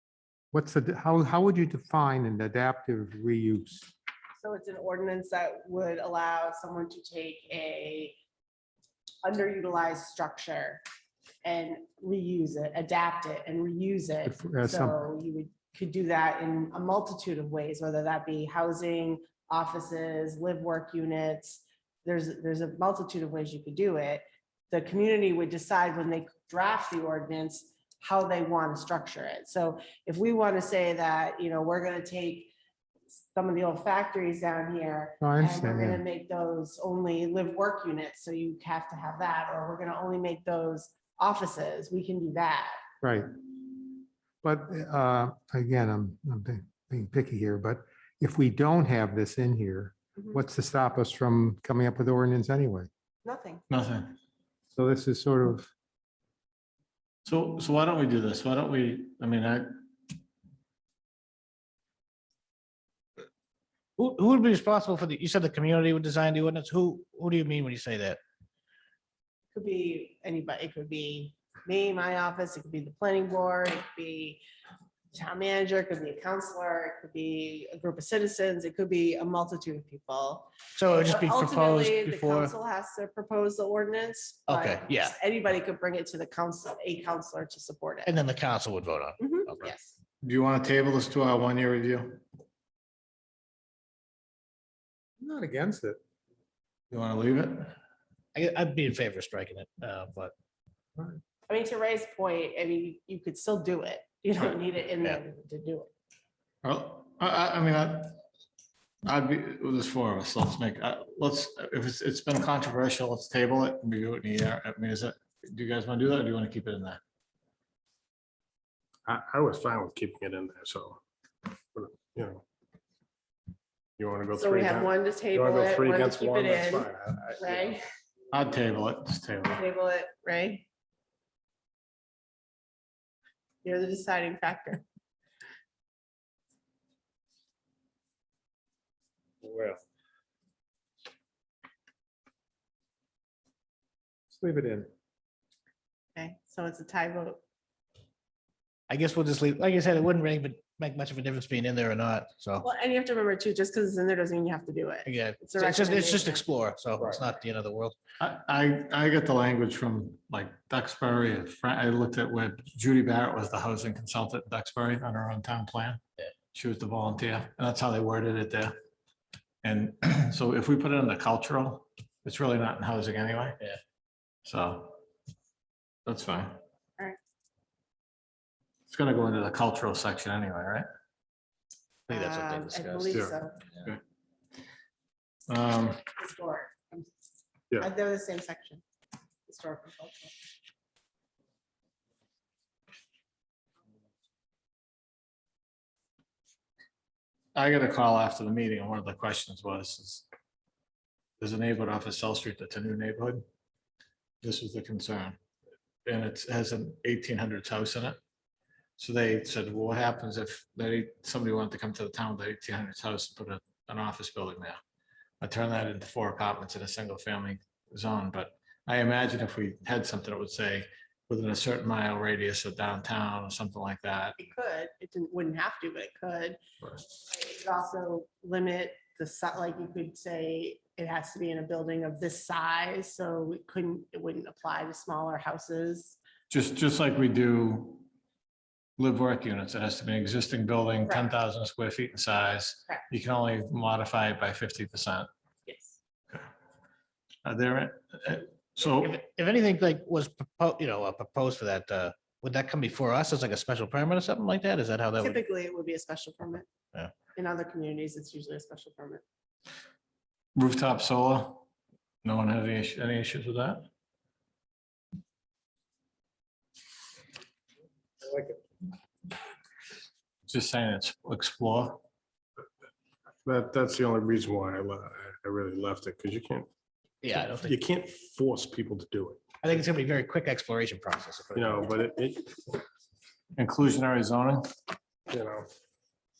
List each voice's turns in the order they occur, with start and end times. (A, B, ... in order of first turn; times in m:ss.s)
0:00.5-0:03.9 A
0:04.4-0:08.2 B
0:09.2-0:10.8 B
0:11.4-0:32.5 B
0:14.2-0:15.0 A
0:33.2-0:42.8 B
0:35.2-0:36.0 A
0:43.0-0:43.3 A
0:44.4-0:52.9 A
0:53.2-0:53.6 B
0:53.7-0:54.1 C
0:54.7-0:55.7 A
0:57.2-0:59.7 C
1:04.0-1:08.2 D
1:09.5-1:14.4 B
1:15.1-1:28.1 B
1:20.7-1:22.5 D
1:24.5-1:25.2 D
1:28.0-1:29.7 D
1:29.2-1:30.0 B
1:30.2-1:32.2 C
1:35.2-1:36.0 A
1:36.9-1:37.7 C
1:38.3-1:40.3 D
1:41.5-1:45.9 B
1:46.6-1:48.2 C
1:49.0-1:57.0 C
1:59.0-2:02.4 E
2:04.0-2:07.7 E
2:04.4-2:06.9 B
2:07.4-2:07.8 B
2:08.3-2:09.6 C
2:09.5-2:10.6 B
2:13.6-2:14.8 B
2:19.4-2:19.8 A
2:24.3-2:24.9 A
2:26.2-2:27.4 B
2:28.9-2:32.7 D
2:32.6-2:36.4 B
2:35.0-2:38.0 D
2:38.2-2:46.0 C
2:46.5-2:48.7 C
2:49.6-2:53.6 C
2:54.4-2:55.0 C
2:56.0-2:56.6 C
2:58.9-3:00.8 C
3:02.1-3:03.9 D
3:02.1-3:03.6 B
3:05.5-3:06.0 C
3:06.2-3:07.1 B
3:07.8-3:08.8 B
3:09.5-3:10.3 B
3:17.5-3:20.2 C
3:21.4-3:23.4 C
3:24.4-3:25.4 C
3:26.0-3:28.2 C
3:29.0-3:34.8 C
3:35.4-3:44.4 C
3:44.4-3:46.6 B
3:47.1-3:56.2 B
3:56.5-3:58.1 C
3:59.0-4:05.3 C
4:01.0-4:01.3 B
4:05.6-4:06.0 B
4:07.4-4:09.1 C
4:08.8-4:15.4 D
4:15.2-4:16.7 B
4:17.3-4:19.2 B
4:20.5-4:21.6 C
4:22.2-4:23.8 C
4:30.5-4:32.0 C
4:33.4-4:36.7 E
4:37.2-4:37.8 D
4:37.3-4:39.4 E
4:39.6-4:41.8 D
4:41.5-4:42.8 E
4:43.6-4:44.6 C
4:45.3-4:45.7 E